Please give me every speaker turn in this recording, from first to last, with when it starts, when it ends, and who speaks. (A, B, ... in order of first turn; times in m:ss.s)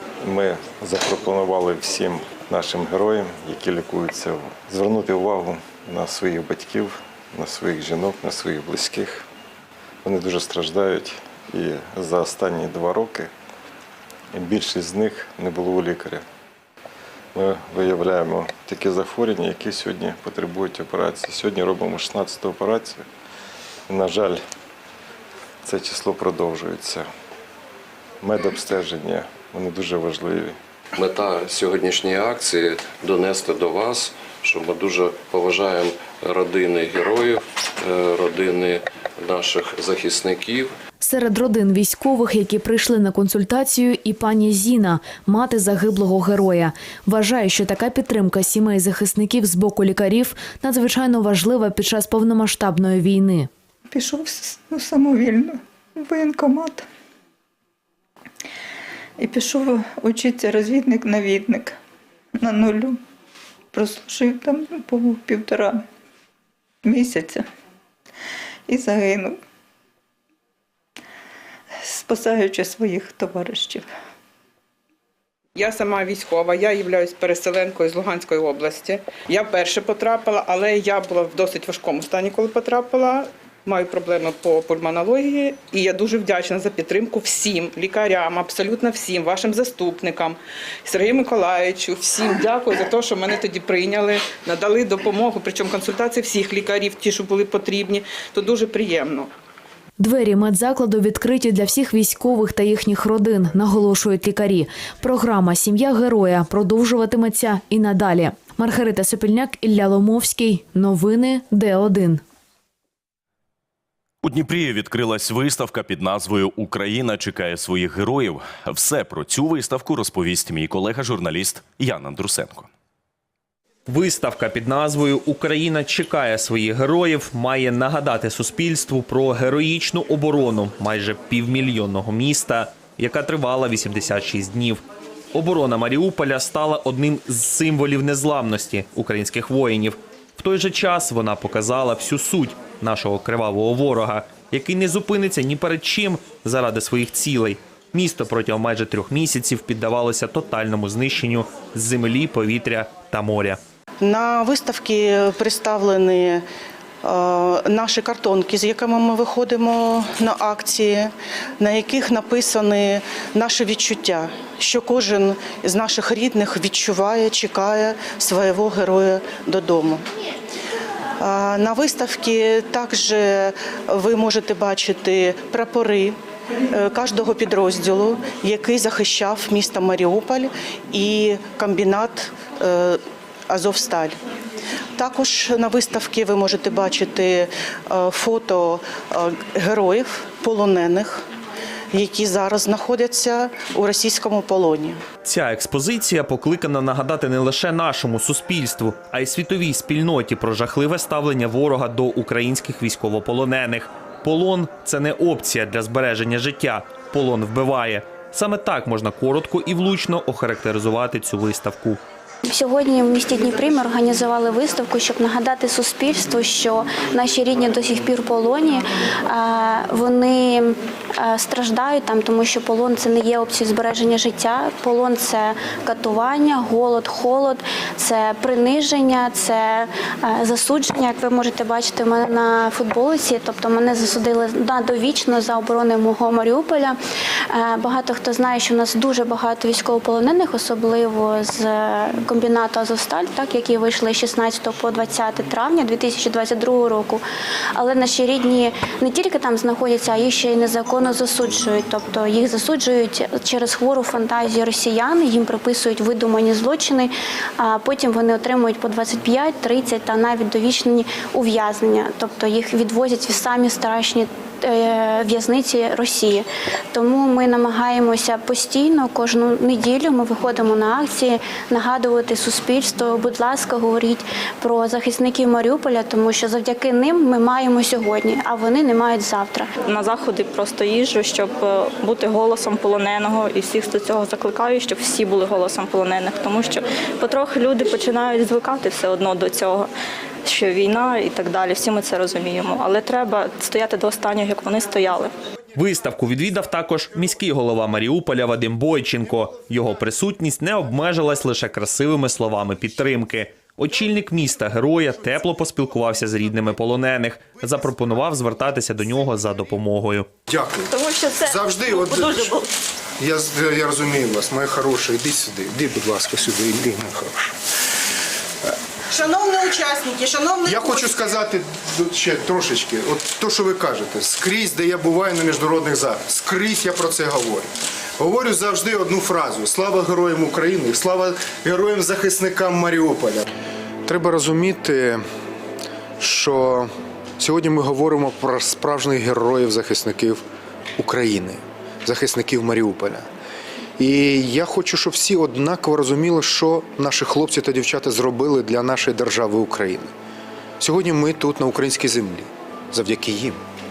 0:00.2-0:09.2 A
0:10.0-0:13.3 A
0:14.3-0:16.2 A
0:17.3-0:23.0 A
0:23.9-0:24.4 A
0:25.6-0:27.1 A
0:28.2-0:30.6 A
0:31.0-0:40.7 B
0:41.0-0:53.5 C
0:53.9-0:56.9 D
0:59.2-1:01.8 D
1:02.4-1:03.0 D
1:03.7-1:05.8 D
1:06.8-1:07.4 D
1:08.7-1:09.4 D
1:11.8-1:13.9 D
1:15.5-1:39.3 E
1:40.0-1:52.2 C
1:54.2-2:02.7 F
2:03.9-2:14.8 G
2:15.3-2:33.6 G
2:34.0-2:36.4 H
2:37.0-2:50.0 H
2:51.2-2:56.2 H
2:56.7-3:04.2 H
3:05.0-3:11.2 H
3:11.9-3:15.0 H
3:15.2-3:32.0 G
3:32.5-3:57.0 I
3:57.5-4:07.2 I
4:07.7-4:39.7 I
4:39.8-4:49.9 J
4:50.4-4:55.3 J
4:55.7-5:10.3 G
5:10.5-5:12.6 K
5:11.0-5:11.5 J
5:13.2-5:17.5 K
5:19.1-5:21.2 H
5:20.6-5:33.5 K
5:34.0-5:35.2 K
5:36.2-5:40.4 K
5:41.0-5:43.3 K
5:44.0-5:50.1 K
5:50.8-5:53.6 K